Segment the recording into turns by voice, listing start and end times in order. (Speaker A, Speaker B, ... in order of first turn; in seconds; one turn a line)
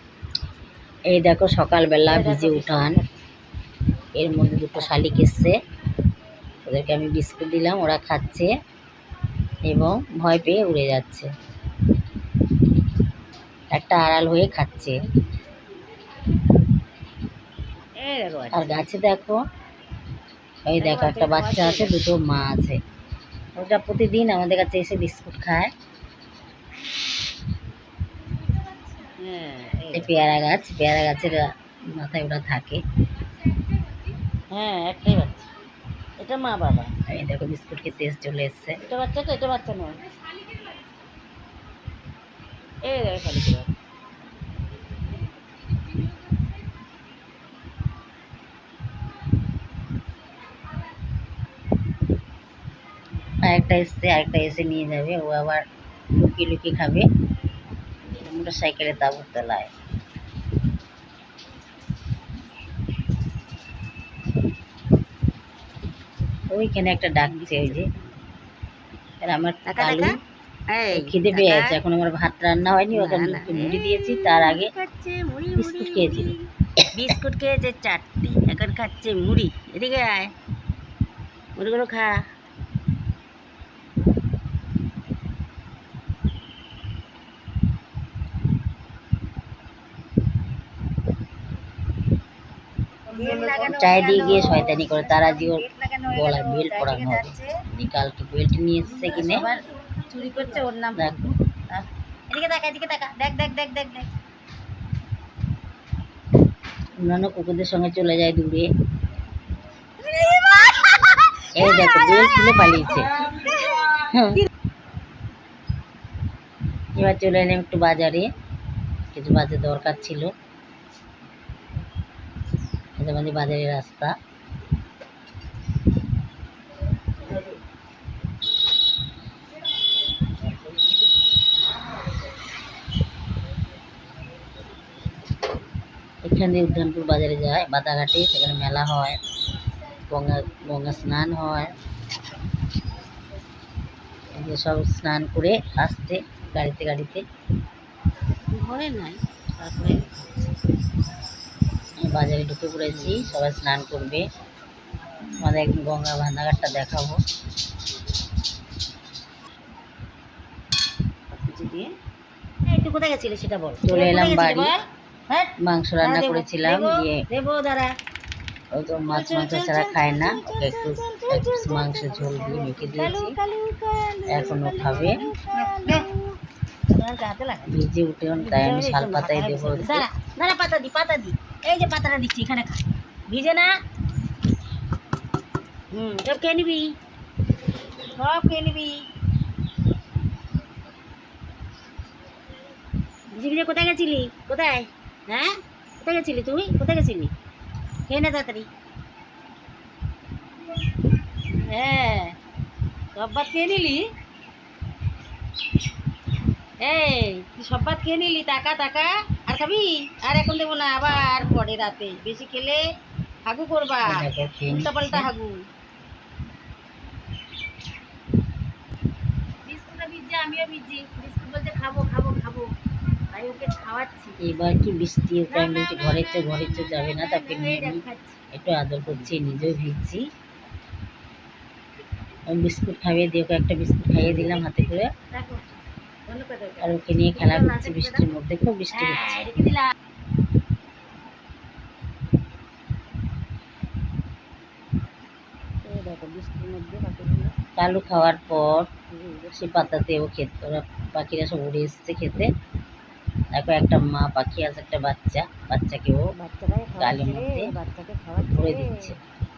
Speaker A: 1.1-3.0
Speaker B: 2.1-3.1
Speaker A: 4.2-5.5
Speaker B: 4.8-5.0
Speaker A: 6.7-8.5
Speaker A: 9.7-11.3
Speaker A: 13.7-15.0
Speaker B: 18.0-18.8
Speaker A: 18.5-19.4
Speaker A: 20.7-22.8
Speaker B: 20.8-21.9
Speaker A: 23.6-25.7
Speaker B: 29.2-30.1
Speaker A: 29.9-32.8
Speaker B: 34.5-35.5
Speaker B: 36.2-36.9
Speaker A: 37.1-38.8
Speaker B: 38.9-40.0
Speaker B: 42.8-43.7
Speaker A: 53.5-57.1
Speaker A: 58.1-59.7
Speaker A: 66.5-67.8
Speaker B: 67.2-67.9
Speaker A: 69.2-70.2
Speaker B: 69.7-70.2
Speaker B: 70.7-71.8
Speaker A: 70.9-74.7
Speaker B: 72.9-80.3
Speaker A: 75.6-76.3
Speaker B: 81.6-82.2
Speaker B: 93.1-97.5
Speaker A: 93.7-99.5
Speaker B: 98.9-104.1
Speaker A: 101.0-101.3
Speaker A: 107.0-108.7
Speaker B: 110.3-110.9
Speaker A: 111.5-114.4
Speaker A: 117.0-118.3
Speaker A: 119.1-120.3
Speaker A: 123.0-124.2
Speaker A: 136.2-139.2
Speaker A: 140.1-141.7
Speaker A: 144.3-147.2
Speaker B: 148.5-150.3
Speaker A: 152.0-154.2
Speaker B: 152.8-153.3
Speaker A: 155.4-157.2
Speaker B: 161.3-161.9
Speaker B: 162.7-167.9
Speaker A: 163.8-164.7
Speaker A: 165.6-167.2
Speaker A: 168.7-173.4
Speaker B: 169.1-176.4
Speaker A: 174.3-175.2
Speaker B: 176.9-177.7
Speaker A: 177.7-180.1
Speaker B: 178.4-183.8
Speaker B: 185.9-186.9
Speaker B: 188.2-189.0
Speaker B: 193.3-197.3
Speaker B: 198.1-198.7
Speaker B: 201.4-202.3
Speaker B: 203.2-204.0
Speaker B: 206.8-212.8
Speaker B: 213.5-215.6
Speaker A: 214.1-215.3
Speaker B: 219.7-222.7
Speaker B: 223.3-224.4
Speaker A: 224.4-228.0
Speaker B: 225.5-228.3
Speaker A: 228.5-230.2
Speaker B: 229.1-229.3
Speaker A: 232.5-235.1
Speaker B: 235.3-235.7
Speaker B: 236.3-238.3
Speaker A: 236.8-239.4
Speaker B: 238.9-239.9
Speaker B: 245.9-247.5
Speaker A: 247.8-248.9
Speaker B: 249.1-249.7
Speaker A: 249.5-252.5
Speaker A: 253.5-256.3
Speaker B: 256.4-259.1
Speaker A: 257.0-257.7
Speaker A: 258.5-259.2